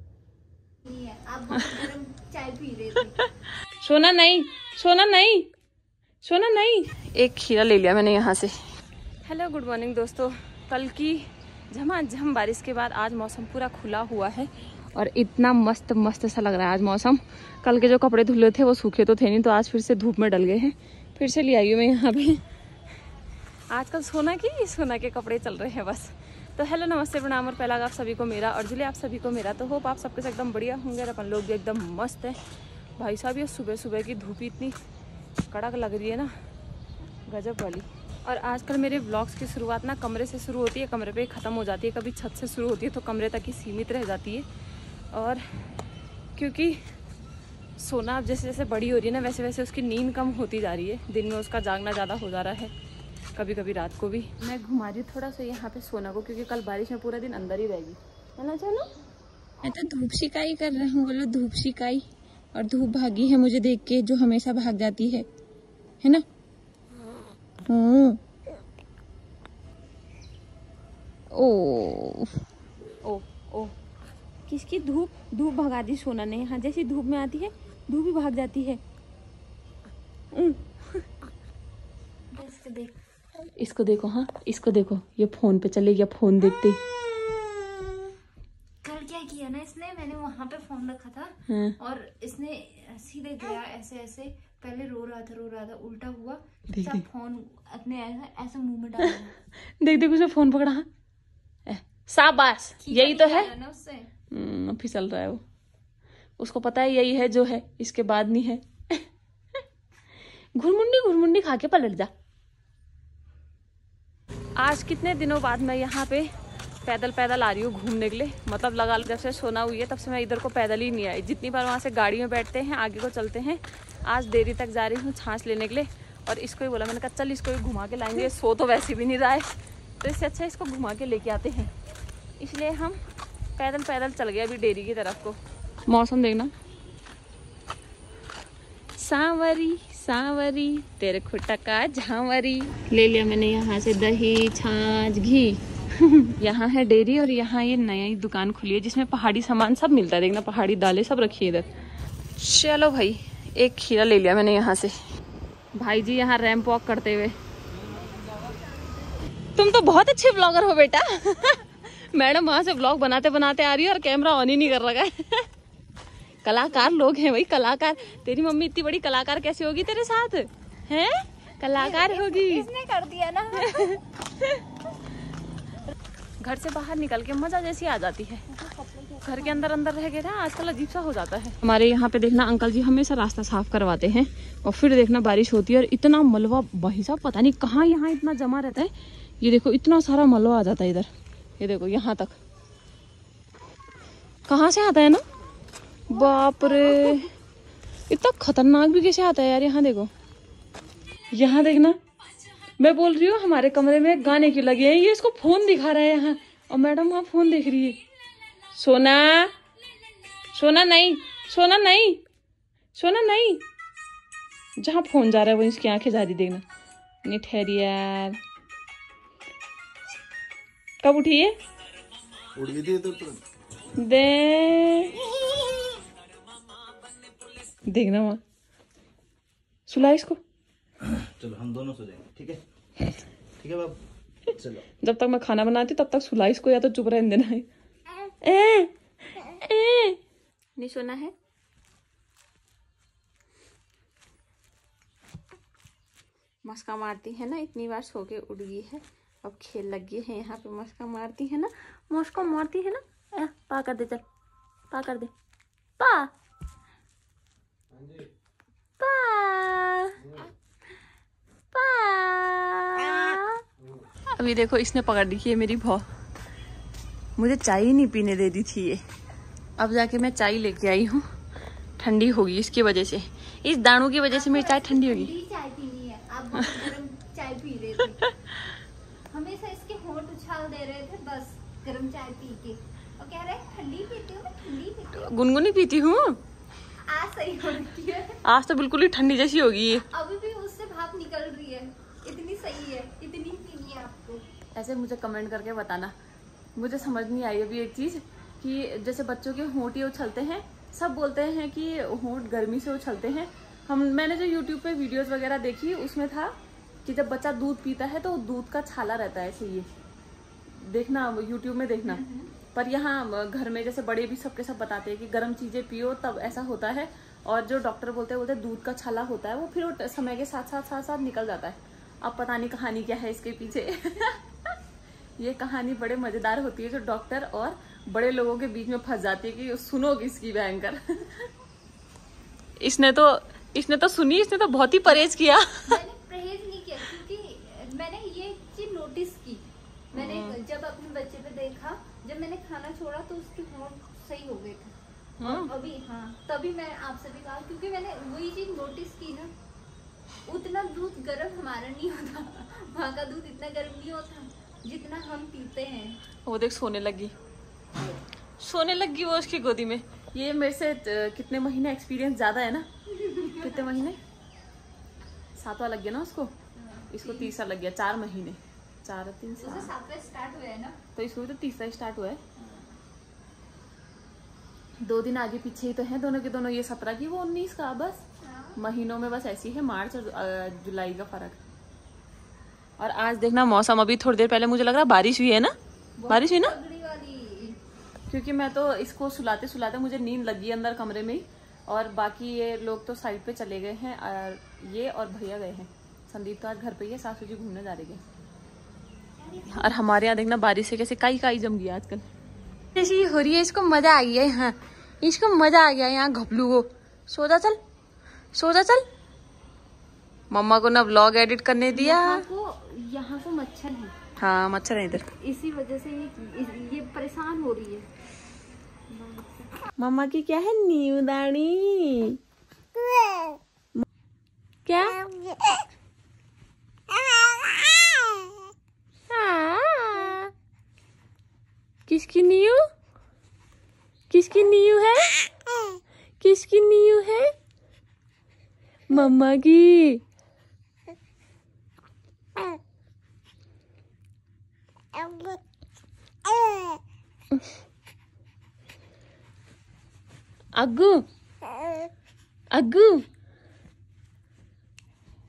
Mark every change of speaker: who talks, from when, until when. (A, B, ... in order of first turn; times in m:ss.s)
0:00.8-0:03.2 A
0:03.2-0:05.5 B
0:06.2-0:08.6 B
0:09.2-0:22.4 B
0:23.7-0:32.4 B
0:33.0-0:34.8 B
0:35.5-0:36.3 B
0:37.3-0:44.5 B
0:45.1-0:45.7 B
0:46.4-0:46.8 B
0:47.8-0:52.7 B
0:53.4-0:58.9 B
0:59.6-1:05.3 B
1:07.7-1:08.2 B
1:11.3-1:12.3 B
1:13.0-1:13.7 B
1:14.5-1:18.8 B
1:20.3-1:21.0 B
1:22.3-1:23.0 A
1:23.6-1:26.8 B
1:28.8-1:39.4 A
1:31.5-1:31.8 B
1:36.7-1:37.0 B
1:39.7-1:40.9 B
1:41.7-1:43.5 B
1:42.8-1:44.1 A
1:44.3-1:45.4 B
1:46.4-1:49.0 B
1:50.6-1:52.1 B
1:54.6-1:56.3 B
1:56.8-2:11.7 B
2:12.4-2:13.0 B
2:13.6-2:15.4 B
2:15.9-2:16.5 B
2:19.0-2:31.7 B
2:32.4-2:35.0 B
2:35.8-2:37.4 B
2:39.6-2:45.5 B
2:46.4-2:52.7 B
2:51.8-2:53.9 A
2:53.6-2:54.6 B
2:56.4-2:58.5 B
2:58.6-2:59.5 A
2:59.2-3:12.4 B
3:14.5-3:15.2 B
3:16.1-3:17.3 B
3:16.1-3:17.2 A
3:18.1-3:20.1 B
3:21.3-3:22.0 B
3:22.8-3:28.0 B
3:28.8-3:29.5 B
3:30.5-3:32.2 B
3:32.9-3:33.6 B
3:34.8-3:36.6 B
3:37.2-3:38.4 B
3:41.0-3:41.6 B
3:42.6-3:43.4 C
3:44.0-3:45.1 B
3:47.9-3:48.4 B
3:49.9-3:50.4 B
3:51.4-3:52.6 C
3:53.6-3:54.0 C
3:55.0-3:57.7 B
3:58.4-4:00.2 B
4:00.8-4:01.3 B
4:06.6-4:14.2 B
4:14.9-4:15.3 B
4:16.0-4:16.3 B
4:19.0-4:20.2 B
4:21.7-4:23.6 B
4:24.4-4:26.0 B
4:27.4-4:29.0 B
4:29.8-4:31.2 B
4:32.0-4:35.3 B
4:34.3-4:38.3 A
4:38.2-4:38.6 B
4:39.3-4:45.4 A
4:45.1-4:46.4 B
4:47.1-4:48.4 A
4:48.4-4:50.1 B
4:50.1-4:54.4 A
4:54.8-4:56.1 B
4:56.8-5:06.5 B
5:07.0-5:09.9 B
5:10.7-5:24.8 B
5:12.1-5:12.5 A
5:25.4-5:31.5 B
5:32.8-5:36.0 B
5:35.8-5:39.6 A
5:40.1-5:40.6 B
5:40.2-5:44.9 A
5:45.4-5:45.7 B
5:45.4-5:49.5 A
5:50.5-5:56.2 A
5:56.4-5:57.3 B
5:58.6-6:02.9 B
6:03.1-6:04.0 A
6:03.6-6:04.2 B
6:05.6-6:06.5 B
6:06.8-6:07.5 A
6:07.1-6:09.9 B
6:09.6-6:11.0 A
6:11.2-6:12.4 B
6:12.6-6:12.9 A
6:15.0-6:18.2 B
6:18.4-6:18.8 A
6:18.8-6:21.6 B
6:23.0-6:25.7 B
6:26.2-6:27.8 A
6:26.3-6:26.7 B
6:28.3-6:38.2 B
6:39.4-6:40.0 A
6:39.7-6:42.2 B
6:43.0-6:47.8 B
6:48.5-6:49.0 B
6:50.5-6:52.4 B
6:51.9-6:54.1 A
6:54.4-6:55.3 B
6:55.4-6:58.1 A
6:59.1-6:59.8 A
7:00.0-7:02.4 B
7:04.9-7:05.2 B
7:09.3-7:10.5 B
7:12.1-7:12.8 B
7:14.3-7:15.4 B
7:16.4-7:17.5 B
7:19.1-7:20.2 B
7:30.8-7:31.2 B
7:32.7-7:33.2 B